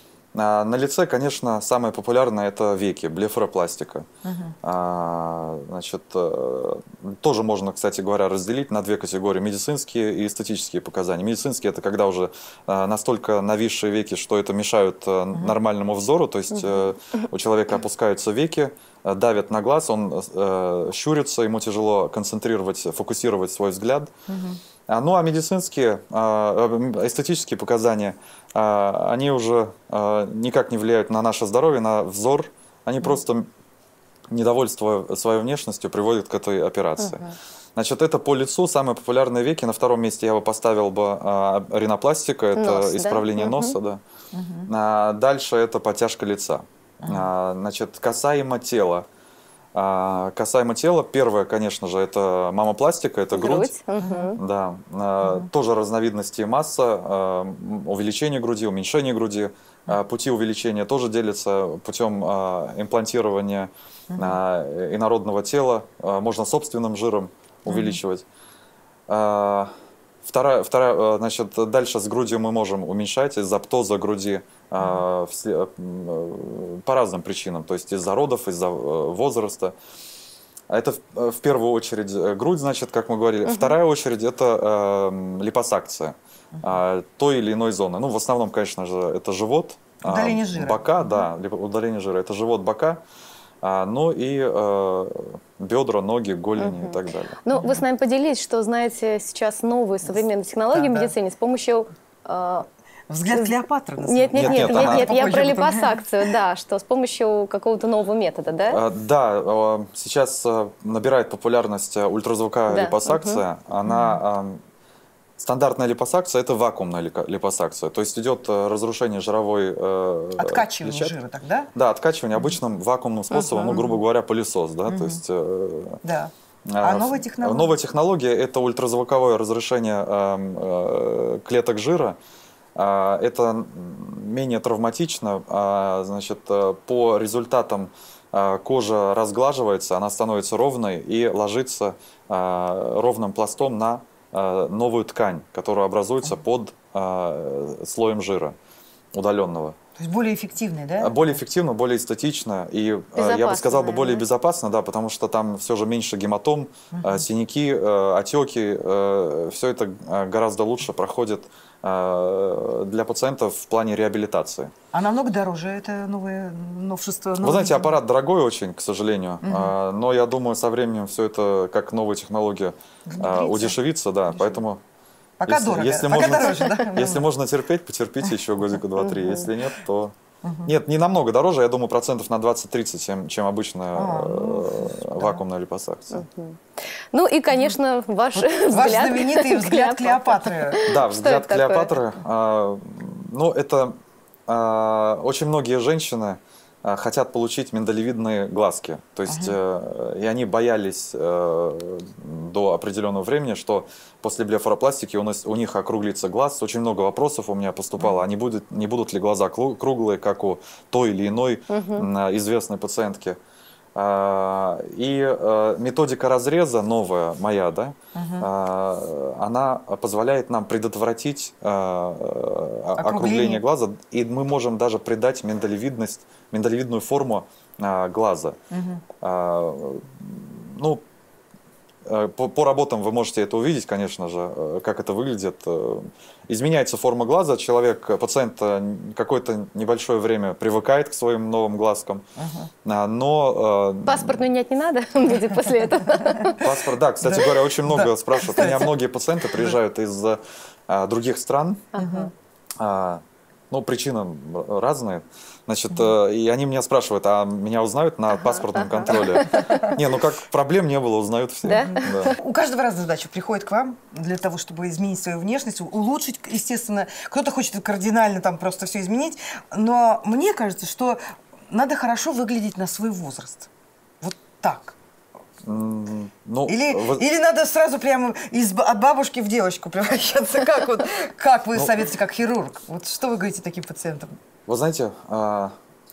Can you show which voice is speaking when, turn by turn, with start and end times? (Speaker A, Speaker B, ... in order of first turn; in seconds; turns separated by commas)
Speaker A: 0.3-4.1, Speaker B: 4.2-4.5, Speaker A: 4.6-24.1, Speaker B: 24.3-24.6, Speaker A: 24.9-33.5, Speaker A: 34.3-37.2, Speaker C: 37.0-37.3, Speaker A: 37.8-44.0, Speaker C: 42.5-43.8, Speaker B: 44.3-44.7, Speaker A: 44.7-49.1, Speaker A: 49.8-53.7, Speaker C: 53.3-54.4, Speaker B: 54.0-54.4, Speaker A: 54.4-68.2, Speaker B: 55.2-55.5, Speaker B: 64.1-64.4, Speaker B: 67.7-68.0, Speaker A: 69.1-69.7, Speaker A: 70.2-79.8, Speaker A: 80.7-93.0, Speaker C: 83.5-83.8, Speaker B: 90.1-91.2, Speaker A: 93.6-97.4, Speaker C: 96.6-102.7, Speaker B: 97.5-97.8, Speaker B: 100.7-101.1, Speaker B: 103.1-106.0, Speaker C: 104.0-108.8, Speaker A: 104.3-105.2, Speaker A: 108.7-114.6, Speaker C: 112.7-113.4, Speaker B: 113.8-114.2, Speaker A: 115.4-121.2, Speaker B: 120.4-121.7, Speaker A: 121.8-126.0, Speaker B: 123.3-124.0, Speaker B: 124.9-125.2, Speaker B: 126.0-126.3, Speaker A: 126.7-132.2, Speaker B: 126.8-127.7, Speaker A: 132.8-148.6, Speaker A: 149.1-149.8, Speaker B: 150.0-151.3, Speaker A: 151.0-164.7, Speaker C: 153.2-154.2, Speaker B: 156.9-157.2, Speaker B: 164.9-167.9, Speaker A: 167.4-174.8, Speaker B: 169.4-169.7, Speaker B: 173.1-173.8, Speaker B: 174.3-174.6, Speaker B: 175.4-177.3, Speaker A: 175.5-186.2, Speaker C: 179.0-179.5, Speaker B: 180.4-180.7, Speaker B: 183.9-185.4, Speaker C: 186.1-186.6, Speaker C: 187.1-191.9, Speaker B: 188.3-190.8, Speaker A: 190.8-213.4, Speaker B: 199.3-199.6, Speaker B: 208.0-208.2, Speaker C: 211.7-212.1, Speaker A: 213.9-228.6, Speaker B: 218.2-218.5, Speaker B: 223.0-223.6, Speaker B: 228.7-229.0, Speaker A: 229.2-231.0, Speaker A: 232.1-242.2, Speaker B: 242.4-242.7, Speaker A: 242.8-244.4, Speaker C: 244.1-246.7, Speaker A: 246.5-251.9, Speaker B: 247.2-248.9, Speaker C: 251.9-252.3, Speaker B: 252.0-252.3, Speaker A: 252.8-262.4, Speaker C: 258.5-259.8, Speaker B: 259.1-259.9, Speaker C: 261.7-262.4, Speaker B: 261.8-273.7, Speaker B: 274.2-274.9, Speaker A: 275.6-277.2, Speaker B: 276.7-284.4, Speaker A: 284.7-285.7